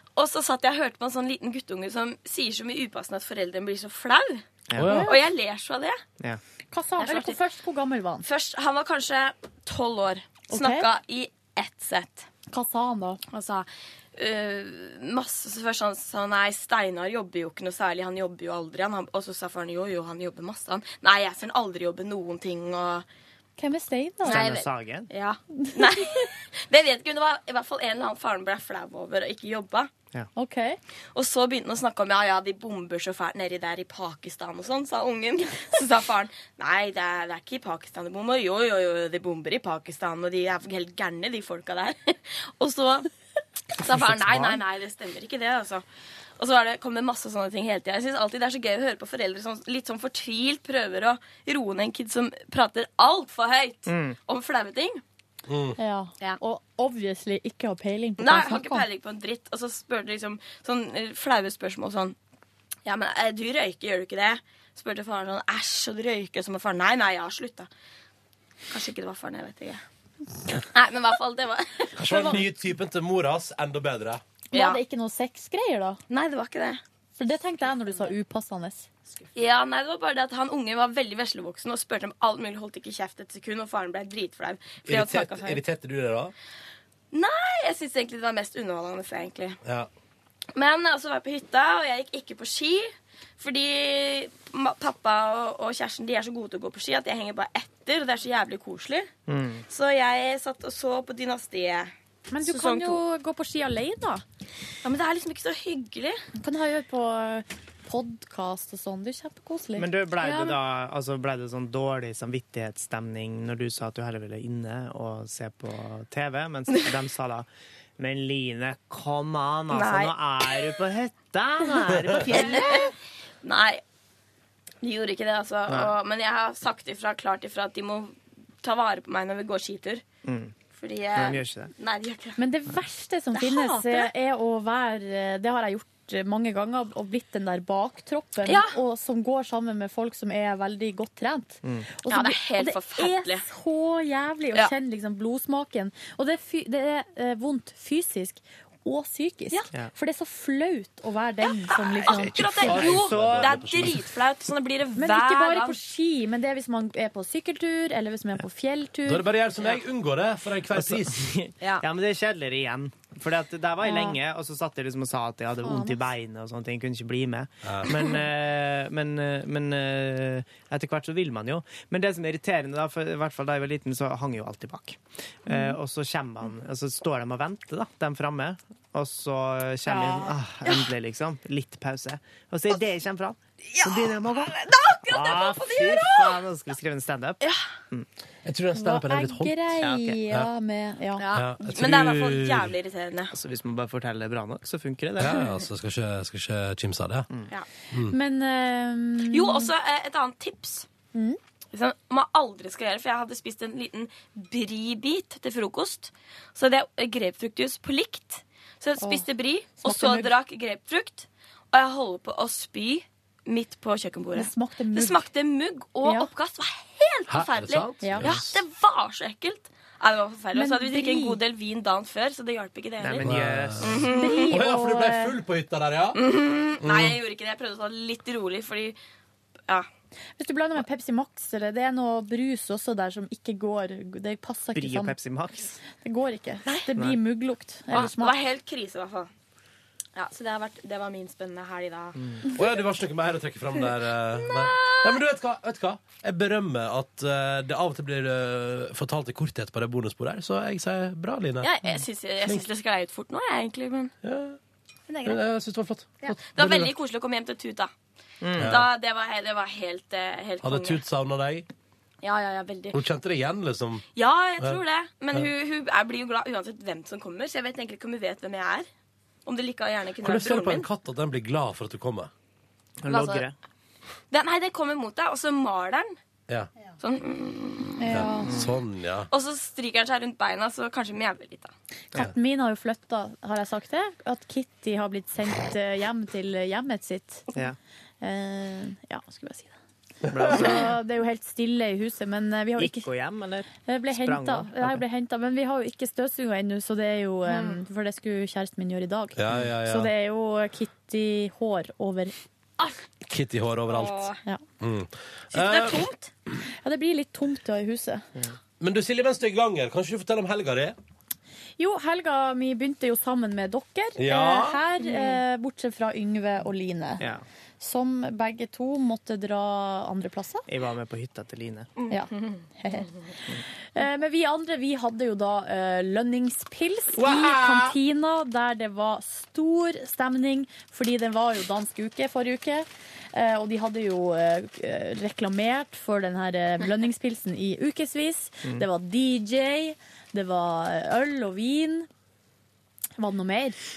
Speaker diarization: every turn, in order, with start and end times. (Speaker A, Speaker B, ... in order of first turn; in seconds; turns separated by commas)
Speaker A: 0.1-6.0, Speaker B: 4.7-5.0, Speaker C: 4.8-5.1, Speaker D: 4.9-5.2, Speaker D: 6.7-8.3, Speaker A: 7.0-7.4, Speaker A: 8.2-12.3, Speaker D: 10.5-10.9, Speaker D: 12.5-13.2, Speaker A: 13.3-23.1, Speaker D: 23.6-24.4, Speaker B: 24.2-25.1, Speaker A: 24.2-29.9, Speaker D: 25.6-25.9, Speaker D: 30.4-30.8, Speaker A: 31.1-43.1, Speaker A: 43.8-45.8, Speaker B: 43.9-44.5, Speaker A: 46.4-55.0, Speaker B: 53.9-54.2, Speaker C: 55.5-55.8, Speaker D: 55.8-58.9, Speaker A: 58.2-62.1, Speaker A: 62.8-67.7, Speaker A: 68.7-69.8, Speaker A: 70.7-71.9, Speaker C: 72.0-74.2, Speaker D: 72.1-72.4, Speaker D: 74.5-76.0, Speaker A: 74.5-74.8, Speaker A: 76.1-76.8, Speaker D: 77.2-78.9, Speaker A: 79.3-85.6, Speaker C: 84.8-86.3, Speaker A: 87.1-89.6, Speaker C: 89.6-89.9, Speaker A: 90.5-99.1, Speaker B: 99.3-99.6, Speaker A: 99.7-103.0, Speaker D: 102.3-104.2, Speaker A: 104.8-106.2, Speaker D: 106.3-110.4, Speaker B: 109.8-117.5, Speaker A: 110.2-110.5, Speaker B: 118.0-122.9, Speaker A: 119.7-120.7, Speaker A: 122.3-122.9, Speaker A: 123.4-123.8, Speaker A: 124.8-130.0, Speaker B: 125.7-125.9, Speaker B: 130.2-130.5, Speaker A: 130.7-132.4, Speaker B: 131.1-131.7, Speaker D: 132.4-152.8, Speaker A: 133.3-134.1, Speaker A: 138.4-138.8, Speaker B: 141.6-141.9, Speaker A: 142.1-143.4, Speaker A: 151.7-155.8, Speaker C: 152.3-154.1, Speaker B: 152.6-153.7, Speaker D: 154.9-159.2, Speaker C: 159.1-161.2, Speaker B: 160.7-187.4, Speaker D: 163.8-164.2, Speaker D: 165.6-166.0, Speaker C: 167.6-167.9, Speaker D: 175.5-175.8, Speaker D: 179.9-180.3, Speaker A: 183.7-186.4, Speaker A: 187.4-187.7, Speaker C: 188.4-189.8, Speaker D: 188.7-191.3, Speaker B: 189.8-190.2, Speaker A: 191.2-193.3, Speaker C: 191.3-192.7, Speaker B: 193.3-195.5, Speaker C: 195.2-197.3, Speaker D: 198.1-199.7, Speaker A: 199.3-200.9, Speaker D: 201.1-201.4, Speaker A: 201.7-223.3, Speaker D: 209.0-209.3, Speaker D: 209.8-210.3, Speaker D: 214.3-215.2, Speaker C: 217.3-218.6, Speaker D: 218.0-218.3, Speaker D: 220.5-221.4, Speaker B: 223.0-224.1, Speaker C: 223.2-226.2, Speaker A: 223.8-224.6, Speaker D: 224.1-225.3, Speaker A: 226.1-229.0, Speaker C: 226.8-227.2, Speaker D: 230.4-235.2, Speaker B: 234.7-235.8, Speaker D: 236.0-238.4, Speaker A: 237.9-239.3, Speaker A: 240.1-242.6, Speaker C: 242.6-251.7, Speaker A: 244.5-245.1, Speaker A: 251.6-254.1, Speaker C: 254.2-254.6, Speaker C: 255.2-256.9, Speaker A: 256.2-257.9, Speaker B: 258.4-258.7, Speaker A: 258.6-261.0, Speaker C: 258.6-258.9, Speaker C: 260.6-261.7, Speaker A: 262.2-263.0, Speaker C: 262.9-264.0, Speaker A: 264.1-268.9, Speaker A: 269.4-270.9, Speaker C: 270.2-272.3, Speaker B: 273.0-273.5, Speaker A: 273.1-273.4, Speaker A: 274.3-276.2, Speaker A: 277.0-278.3, Speaker D: 278.0-278.5, Speaker C: 278.1-279.3, Speaker B: 278.4-278.7, Speaker A: 279.3-281.7, Speaker D: 282.1-287.4, Speaker D: 288.2-289.7, Speaker B: 290.3-290.9, Speaker D: 290.4-293.1, Speaker B: 292.8-295.0, Speaker D: 293.9-302.3, Speaker A: 297.5-297.8, Speaker C: 299.4-300.1, Speaker C: 303.3-304.3, Speaker A: 303.9-304.4, Speaker C: 304.8-306.0, Speaker A: 305.5-306.3, Speaker D: 306.8-308.2, Speaker C: 308.8-310.9, Speaker D: 311.8-317.2, Speaker C: 314.2-314.8, Speaker A: 315.0-315.4, Speaker D: 317.8-320.6, Speaker B: 320.7-321.9, Speaker A: 322.0-322.4, Speaker D: 322.1-323.1, Speaker D: 323.9-342.1, Speaker B: 327.2-327.9, Speaker D: 343.2-343.8